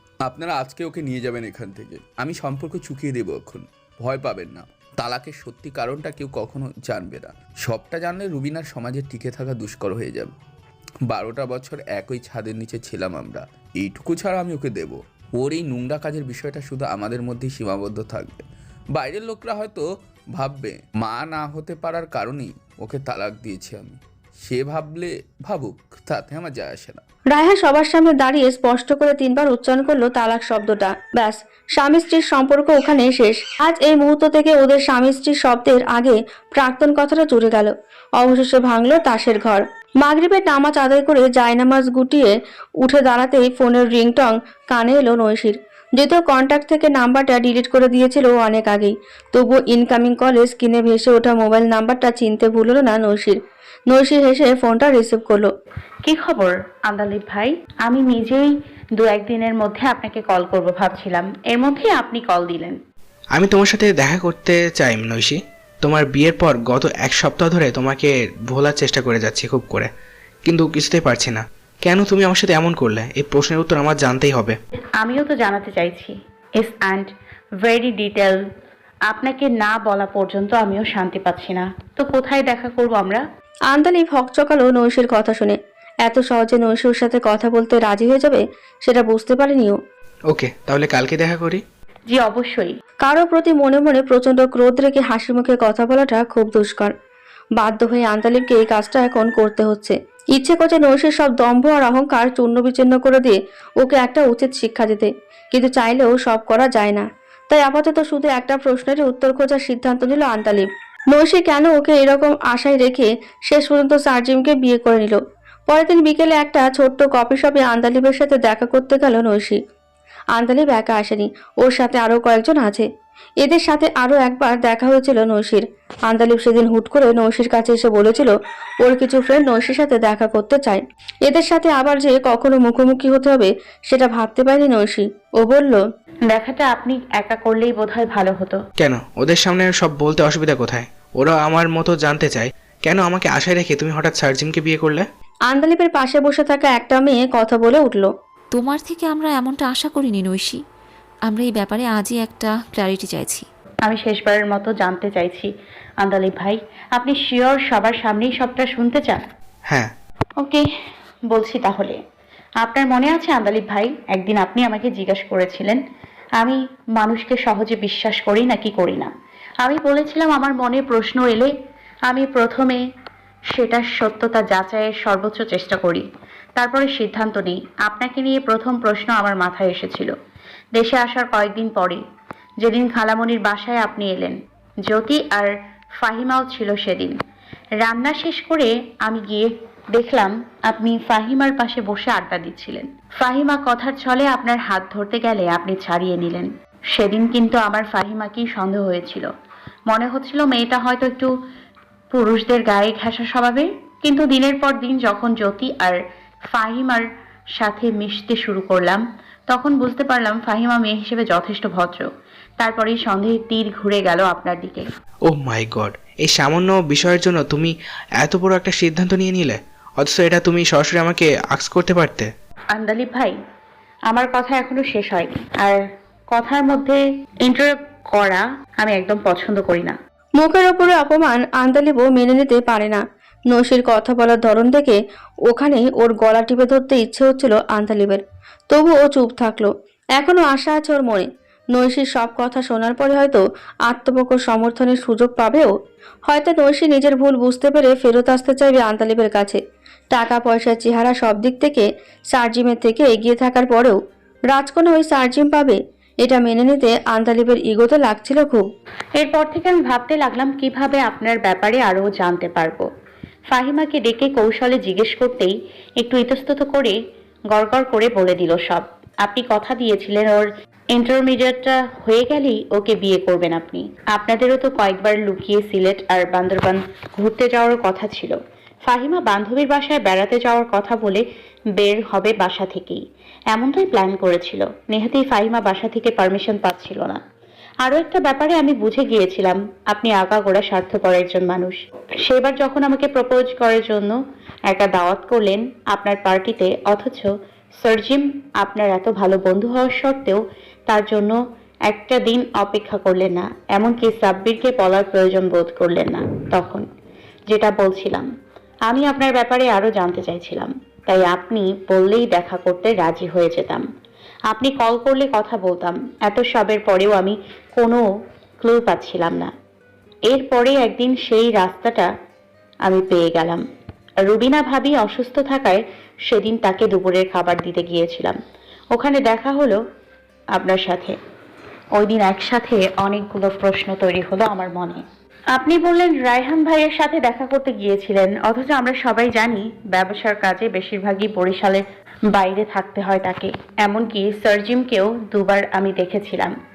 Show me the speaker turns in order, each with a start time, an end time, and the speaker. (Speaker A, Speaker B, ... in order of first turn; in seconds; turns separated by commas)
Speaker A: 0.2-10.3, Speaker A: 11.1-27.0, Speaker B: 27.3-53.4, Speaker B: 53.9-55.5, Speaker C: 56.0-62.8, Speaker D: 63.4-69.9, Speaker D: 70.4-74.5, Speaker C: 75.0-77.1, Speaker C: 77.6-78.4, Speaker C: 79.1-83.2, Speaker B: 83.7-89.8, Speaker D: 90.3-91.6, Speaker C: 92.1-92.7, Speaker B: 93.0-96.9, Speaker B: 97.5-119.6, Speaker B: 120.3-122.8, Speaker B: 123.4-135.8, Speaker C: 136.3-138.6, Speaker D: 138.8-145.0, Speaker B: 145.5-148.1, Speaker E: 148.5-150.6, Speaker E: 151.2-153.4, Speaker C: 153.8-155.5, Speaker C: 156.0-159.2, Speaker C: 160.4-160.7, Speaker C: 161.3-162.0, Speaker C: 162.6-165.8, Speaker C: 166.4-169.1, Speaker C: 169.6-171.5, Speaker C: 172.1-172.8, Speaker C: 173.5-176.0, Speaker C: 176.6-180.1, Speaker C: 180.7-182.0, Speaker C: 182.6-187.2, Speaker C: 187.8-199.3, Speaker C: 199.9-201.3, Speaker C: 202.1-206.0, Speaker C: 206.5-207.0, Speaker C: 207.6-212.1, Speaker C: 212.6-214.9, Speaker D: 215.3-222.3, Speaker C: 222.7-223.3, Speaker C: 224.1-225.8, Speaker C: 226.3-229.9, Speaker B: 230.4-233.0, Speaker B: 233.5-245.7, Speaker B: 246.2-249.6, Speaker B: 250.1-254.0, Speaker B: 254.5-258.6, Speaker C: 259.1-262.9, Speaker C: 263.5-266.9, Speaker C: 267.5-281.2, Speaker C: 281.8-283.0, Speaker C: 283.5-287.2, Speaker C: 287.8-297.3, Speaker C: 297.8-301.4, Speaker C: 301.9-306.8, Speaker C: 307.5-308.3, Speaker C: 308.9-313.8, Speaker C: 314.5-318.0, Speaker C: 318.6-319.5, Speaker C: 320.3-322.1, Speaker C: 322.9-323.6, Speaker C: 324.2-328.4, Speaker C: 328.9-329.8, Speaker C: 330.6-331.1, Speaker C: 331.9-335.0, Speaker C: 335.6-341.8, Speaker C: 342.3-346.5